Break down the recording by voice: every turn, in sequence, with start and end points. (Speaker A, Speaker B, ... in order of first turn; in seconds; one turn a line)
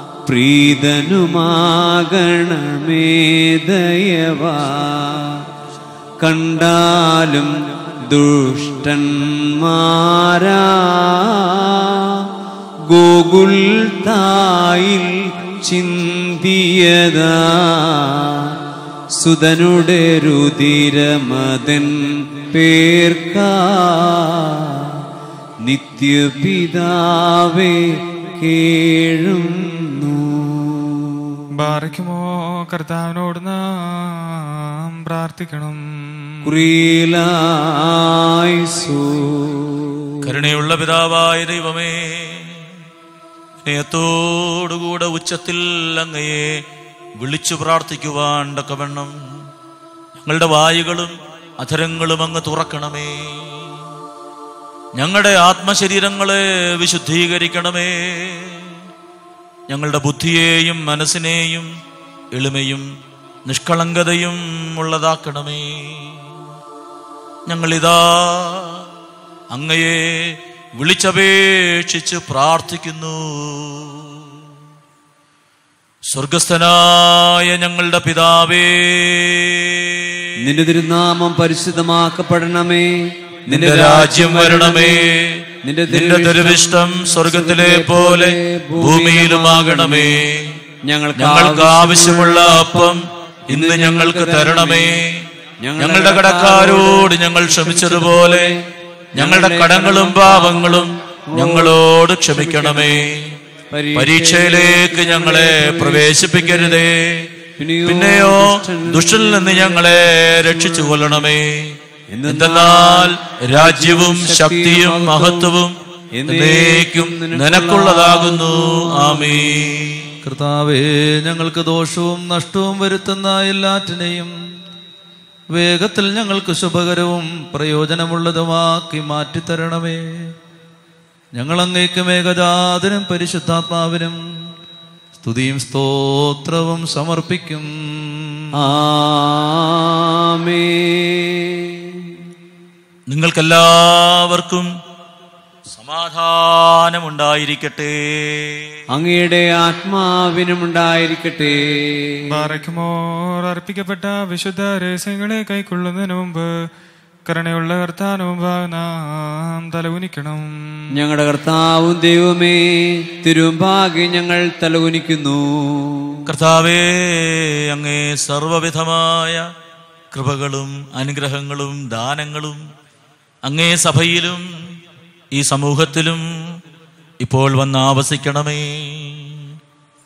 Speaker A: 0.3-5.4
Speaker A: 6.2-12.2
Speaker A: 12.9-18.6
Speaker A: 19.2-25.0
Speaker A: 25.6-31.4
Speaker B: 31.6-36.6
Speaker A: 36.4-40.2
Speaker C: 40.2-42.8
Speaker C: 43.6-46.6
Speaker C: 47.2-49.1
Speaker C: 50.2-53.7
Speaker C: 55.0-58.8
Speaker C: 59.7-61.7
Speaker C: 62.3-62.9
Speaker C: 63.5-66.2
Speaker C: 67.5-68.9
Speaker C: 69.5-74.5
Speaker C: 76.1-80.3
Speaker A: 80.4-85.1
Speaker C: 83.5-90.6
Speaker A: 85.6-90.2
Speaker A: 90.9-93.0
Speaker C: 91.2-93.0
Speaker C: 93.5-95.3
Speaker A: 93.5-95.0
Speaker A: 95.6-98.6
Speaker C: 95.8-98.5
Speaker A: 99.2-101.8
Speaker C: 99.2-103.4
Speaker A: 102.3-103.1
Speaker A: 103.7-106.8
Speaker C: 104.0-107.3
Speaker A: 107.6-111.2
Speaker C: 107.9-115.8
Speaker A: 112.1-115.5
Speaker A: 116.2-119.7
Speaker C: 116.3-120.1
Speaker D: 120.2-124.3
Speaker D: 125.5-130.0
Speaker D: 131.3-134.2
Speaker D: 135.2-138.2
Speaker A: 138.5-142.2
Speaker C: 143.1-144.7
Speaker C: 145.7-148.8
Speaker A: 148.9-152.2
Speaker B: 152.3-156.5
Speaker B: 157.3-160.8
Speaker A: 160.9-166.2
Speaker C: 166.3-169.4
Speaker C: 170.1-172.6
Speaker C: 173.4-174.5
Speaker C: 175.3-176.2
Speaker C: 177.2-179.5